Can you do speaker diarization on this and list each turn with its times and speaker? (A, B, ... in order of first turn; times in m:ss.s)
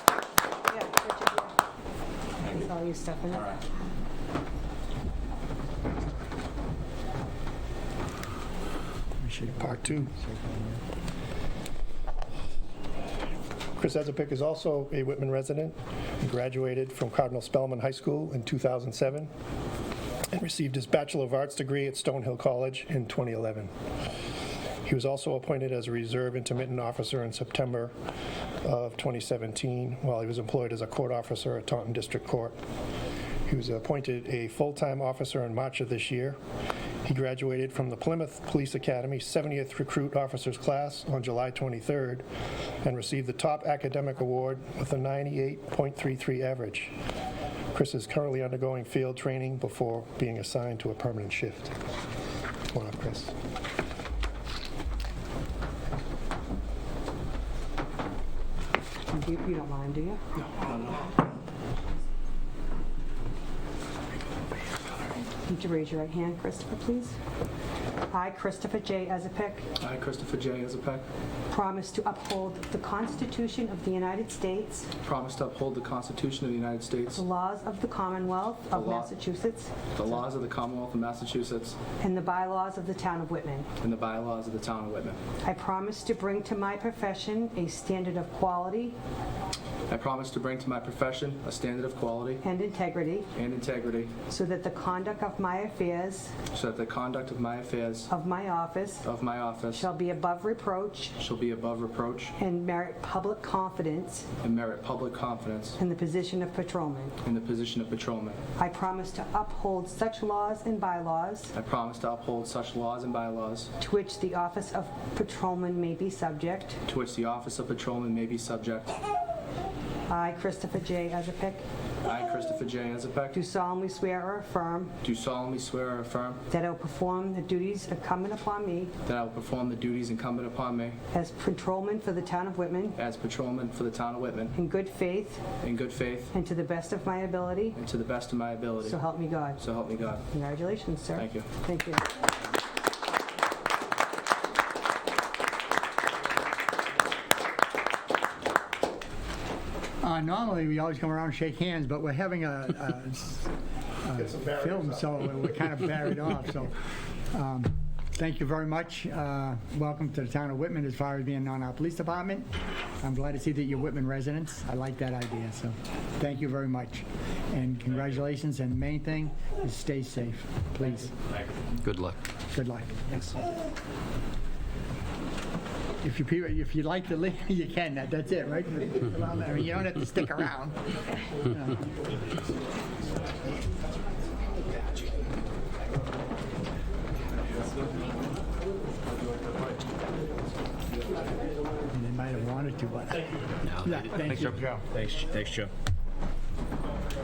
0:00.6-0:01.5 A
0:02.4-0:03.6 A
0:09.2-0:10.8 B
0:09.6-0:10.1 C
0:13.8-0:19.3 C
0:20.3-0:23.7 C
0:24.8-0:27.9 C
0:28.6-0:32.6 C
0:33.5-0:36.4 C
0:37.0-0:42.2 C
0:42.8-0:46.9 C
0:47.7-0:51.7 C
0:52.7-0:53.3 C
0:59.1-1:00.2 A
1:05.4-1:07.1 A
1:08.1-1:09.6 A
1:09.8-1:11.0 D
1:11.5-1:14.9 A
1:15.0-1:17.2 D
1:17.1-1:19.7 A
1:18.7-1:19.1 D
1:19.9-1:21.8 D
1:22.0-1:23.7 A
1:23.8-1:25.2 D
1:25.4-1:28.9 A
1:29.9-1:32.4 D
1:32.4-1:33.3 A
1:33.3-1:34.1 D
1:34.3-1:36.3 A
1:36.5-1:38.1 D
1:38.1-1:39.1 A
1:39.0-1:39.8 D
1:39.7-1:41.1 A
1:41.2-1:42.3 D
1:42.4-1:44.3 A
1:44.4-1:45.8 D
1:45.8-1:47.2 A
1:47.2-1:48.4 D
1:48.6-1:51.5 A
1:51.5-1:53.7 D
1:53.8-1:56.8 A
1:56.8-1:59.0 D
2:00.1-2:01.6 A
2:02.0-2:03.4 D
2:03.3-2:04.9 A
2:05.0-2:06.4 D
2:06.5-2:08.9 A
2:09.0-2:11.0 D
2:11.1-2:13.0 A
2:13.0-2:14.5 D
2:14.5-2:15.4 A
2:15.6-2:16.3 D
2:16.3-2:17.8 A
2:17.8-2:19.0 D
2:18.8-2:19.6 A
2:19.6-2:20.2 D
2:20.3-2:22.1 A
2:21.2-2:21.5 D
2:30.0-2:33.5 B
2:34.0-2:36.7 B
2:34.1-2:35.2 C
2:37.3-2:42.5 B
2:43.0-2:51.1 B
2:51.8-2:52.2 E
2:52.5-2:53.5 B
2:56.0-3:00.8 B
3:01.3-3:01.8 B
3:11.9-3:14.7 B
3:13.6-3:15.6 E